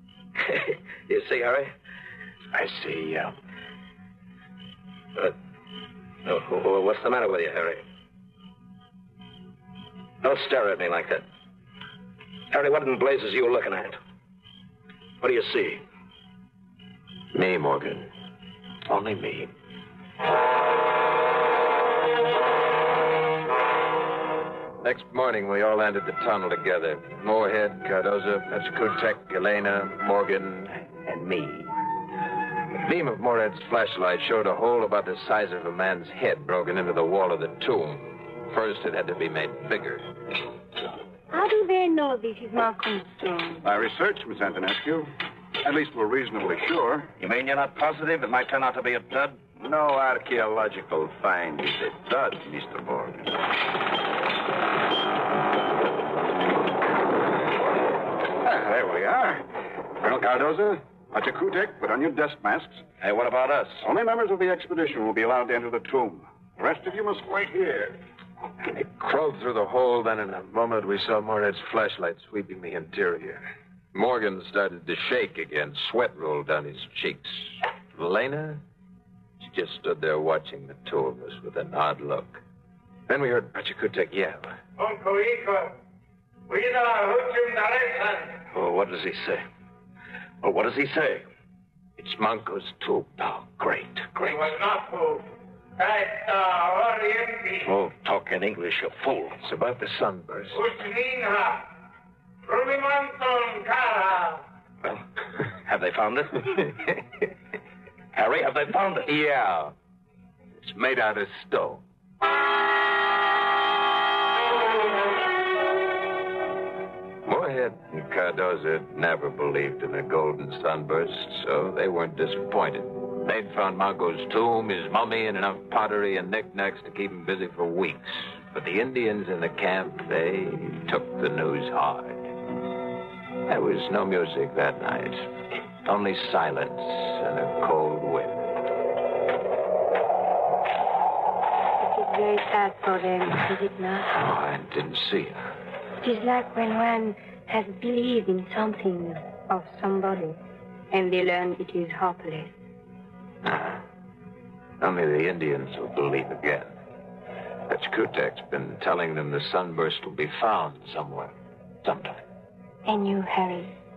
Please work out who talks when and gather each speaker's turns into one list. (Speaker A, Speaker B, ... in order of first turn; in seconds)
Speaker A: 0.4-1.7, 6.2-7.8, 10.2-11.2, 12.5-14.0, 15.2-15.8, 47.2-49.4, 63.0-63.8, 88.5-89.4, 90.4-91.2, 97.6-99.4, 105.7-106.7, 108.1-109.1
Speaker B: 2.5-3.3, 17.3-18.1, 18.9-19.5, 24.8-31.7, 32.7-40.1, 68.6-78.6, 79.4-82.4, 83.1-84.5, 92.0-94.5, 99.4-100.6, 109.1-109.7, 110.6-111.8, 117.3-132.3, 133.5-135.3, 135.8-138.6, 144.1-145.4, 153.4-153.8, 154.8-156.7, 157.7-162.2
Speaker C: 41.3-43.6, 141.8-144.1, 146.0-150.4, 150.9-152.5, 162.9-163.7
Speaker D: 43.6-45.1, 45.7-47.1, 58.4-59.4, 60.0-62.8, 63.9-67.9
Speaker E: 49.6-53.4
Speaker F: 86.8-88.0, 94.6-95.1, 95.9-97.1, 100.8-101.2, 102.5-102.8